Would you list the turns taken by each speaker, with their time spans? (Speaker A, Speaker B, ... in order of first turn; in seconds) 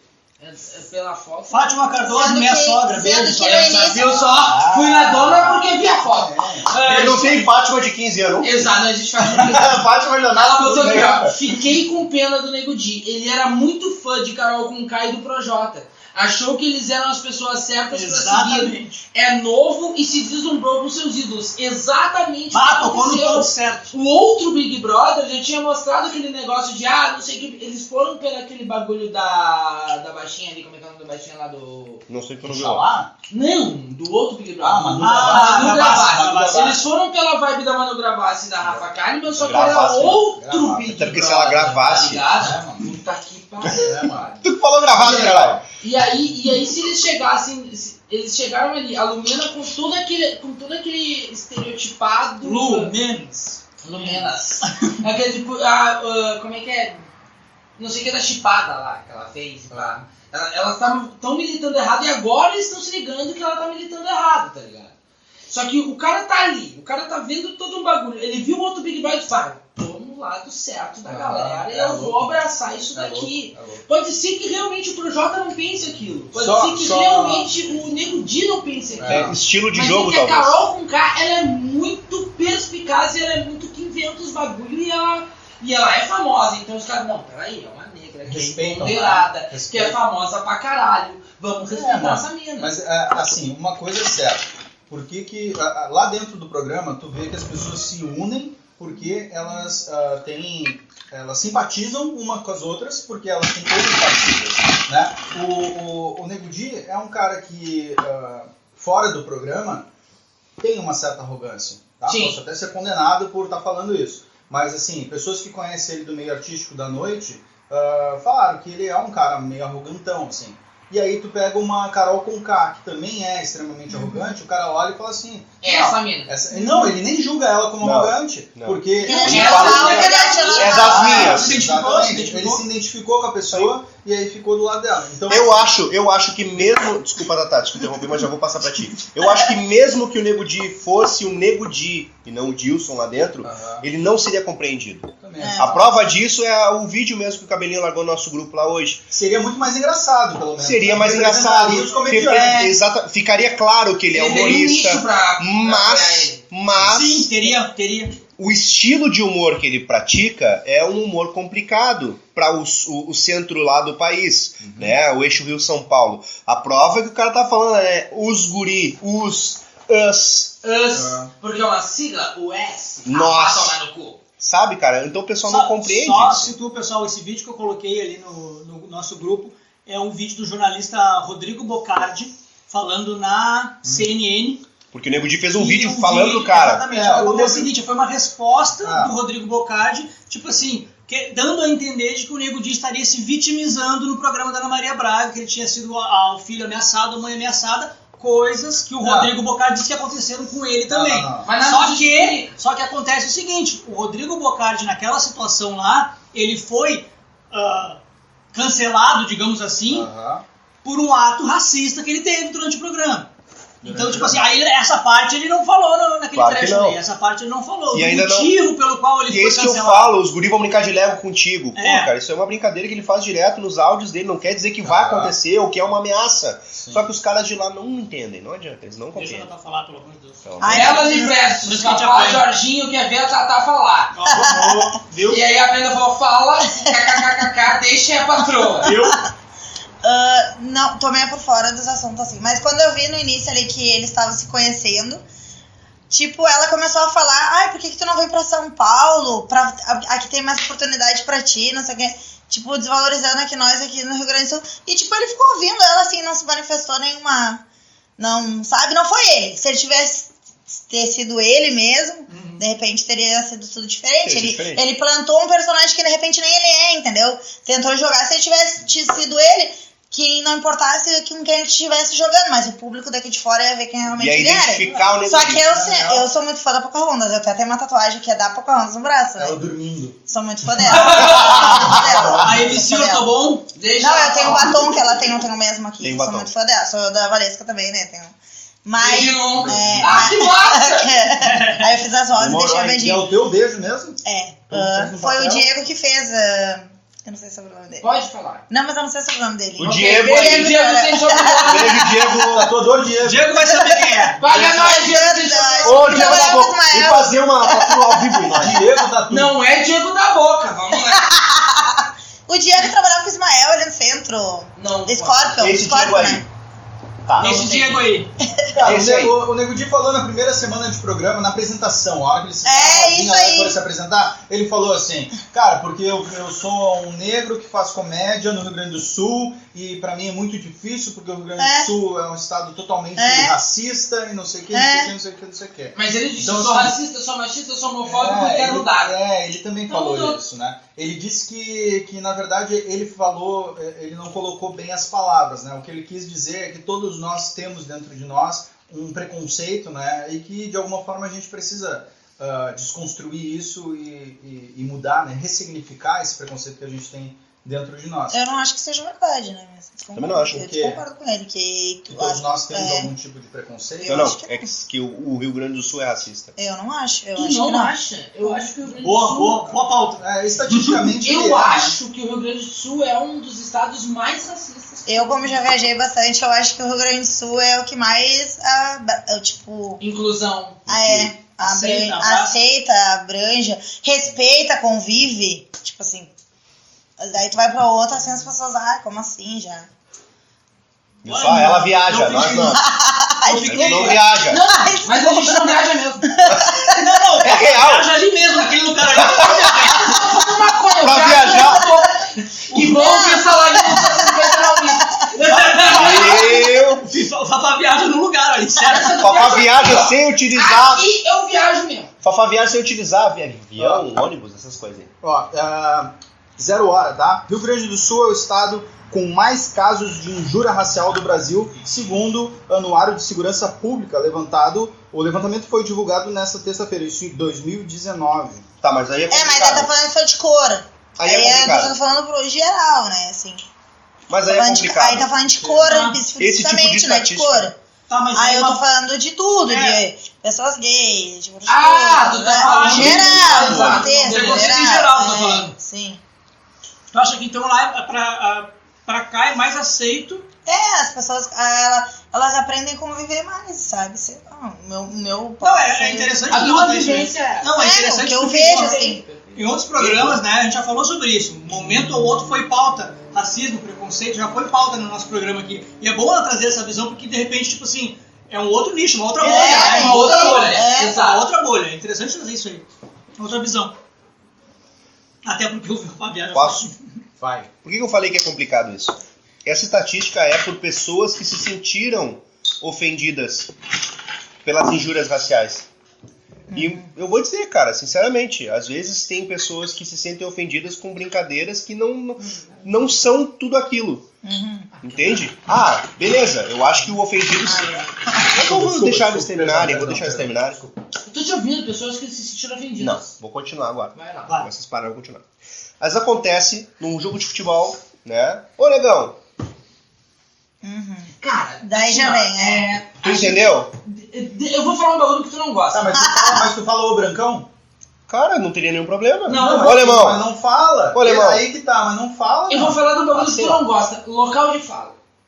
Speaker A: 0.4-2.0, 3.4-7.4, 8.4-32.0, 33.3-52.9, 53.8-57.0, 57.8-64.9, 65.5-92.7, 112.1-112.4, 125.6-126.3, 129.2-131.2, 154.1-156.4, 170.6-174.2, 201.4-202.5, 230.6-234.2, 235.2-238.9, 280.9-281.8, 283.7-285.0, 289.0-291.3, 298.0-298.6, 299.8-302.1, 304.4-306.6, 309.3-311.4, 314.8-315.7, 317.5-318.0, 335.9-339.1, 339.9-340.4, 367.3-369.7, 371.2-375.6, 380.0-380.8, 394.5-396.4, 399.8-406.3, 408.8-412.1, 441.6-445.0, 456.5-457.8, 458.5-459.6, 469.4-471.4, 501.3-503.3, 504.1-504.5, 511.4-516.2, 519.5-520.0, 522.7-525.1
Speaker B: 1.5-4.0, 17.9-19.1, 22.5-23.9, 35.0-36.8, 52.4-54.7, 130.9-132.6, 156.8-158.2, 175.4-184.6, 185.5-208.0, 208.5-210.1, 210.8-213.3, 213.8-220.2, 221.7-222.1, 229.1-232.4, 234.1-235.4, 238.8-239.2, 262.3-262.6, 282.4-283.6, 291.4-291.8, 303.2-304.4, 317.4-318.3, 368.9-371.1, 381.6-382.6, 391.2-392.8, 393.4-394.2, 396.9-400.2, 402.7-403.0, 405.4-409.2, 435.8-436.2, 438.1-438.8, 439.7-440.0, 442.6-445.8, 447.1-450.4, 455.6-472.9, 473.4-473.9, 475.4-477.0
Speaker C: 2.0-4.2, 123.9-124.3, 126.5-126.9, 129.0-131.4, 145.4-145.8, 152.2-152.7, 230.6-231.3, 234.3-234.9, 236.8-237.2, 238.8-239.2, 240.0-245.2, 246.1-257.6, 258.2-279.6, 280.3-283.3, 284.0-293.3, 294.2-298.1, 298.7-302.3, 303.8-308.6, 311.0-316.4, 318.4-318.8, 322.6-323.8, 331.6-331.9, 333.2-333.6, 334.7-335.1, 358.3-363.1, 364.0-364.6, 366.6-368.7, 375.1-380.0, 380.9-386.3, 387.2-389.9, 392.7-397.0, 402.8-405.3, 429.3-433.6, 434.4-437.8, 438.3-446.2, 450.6-456.4, 457.7-459.2, 469.4-471.2, 486.7-487.1, 494.4-495.0, 510.8-512.9, 516.1-516.7
Speaker D: 4.2-6.8, 9.4-11.6, 32.4-33.1, 34.6-36.8, 38.6-38.9, 39.4-41.2, 41.8-42.9, 43.7-44.3, 44.9-45.6, 59.7-60.0, 71.0-72.4, 72.9-73.8, 76.3-77.5, 79.0-79.4, 88.2-90.0, 91.6-109.9, 110.6-135.7, 143.4-143.9, 145.2-145.8, 149.1-152.7, 164.6-164.9, 170.9-171.3, 186.9-187.7, 188.8-189.1, 199.0-199.3, 200.9-201.5, 209.9-210.4, 213.8-214.5, 224.8-225.3, 226.8-227.1, 274.9-276.3, 279.4-280.2, 280.8-282.8, 289.5-290.3, 293.0-295.7, 302.5-303.5, 308.6-309.5, 318.7-337.0, 338.0-358.4, 360.5-361.0, 362.1-364.4, 370.2-371.9, 413.8-414.0, 415.2-428.7, 435.5-435.9, 477.4-477.7, 498.4-500.9, 515.9-517.7, 519.5-523.8
Speaker E: 6.8-8.7, 9.3-11.3, 32.1-32.9, 39.4-40.2, 40.9-42.2, 44.4-45.6, 79.0-80.6, 127.8-131.6, 135.3-149.1, 150.6-157.3, 158.4-170.6, 173.1-173.8, 174.4-176.5, 184.9-186.8, 216.3-217.0, 217.9-218.5, 219.3-229.5, 230.4-231.0, 264.2-264.8, 274.1-275.7, 281.3-282.4, 286.0-286.5, 292.3-293.1, 299.8-300.8, 301.6-302.7, 305.8-308.8, 315.6-316.4, 317.2-317.6, 318.8-319.4, 360.1-360.6, 364.1-366.5, 380.9-381.3, 391.2-392.9, 393.6-394.6, 396.4-396.8, 397.4-398.1, 399.1-399.8, 401.0-401.8, 405.9-407.1, 409.2-411.1, 412.2-415.1, 428.8-429.9, 431.2-431.9, 434.3-435.3, 436.4-437.7, 442.9-444.1, 476.5-476.9, 477.8-483.7, 484.6-485.9, 486.7-494.3, 495.0-500.8, 503.0-505.4, 506.0-509.4, 513.2-513.9, 518.3-520.5, 521.1-521.6, 523.4-523.8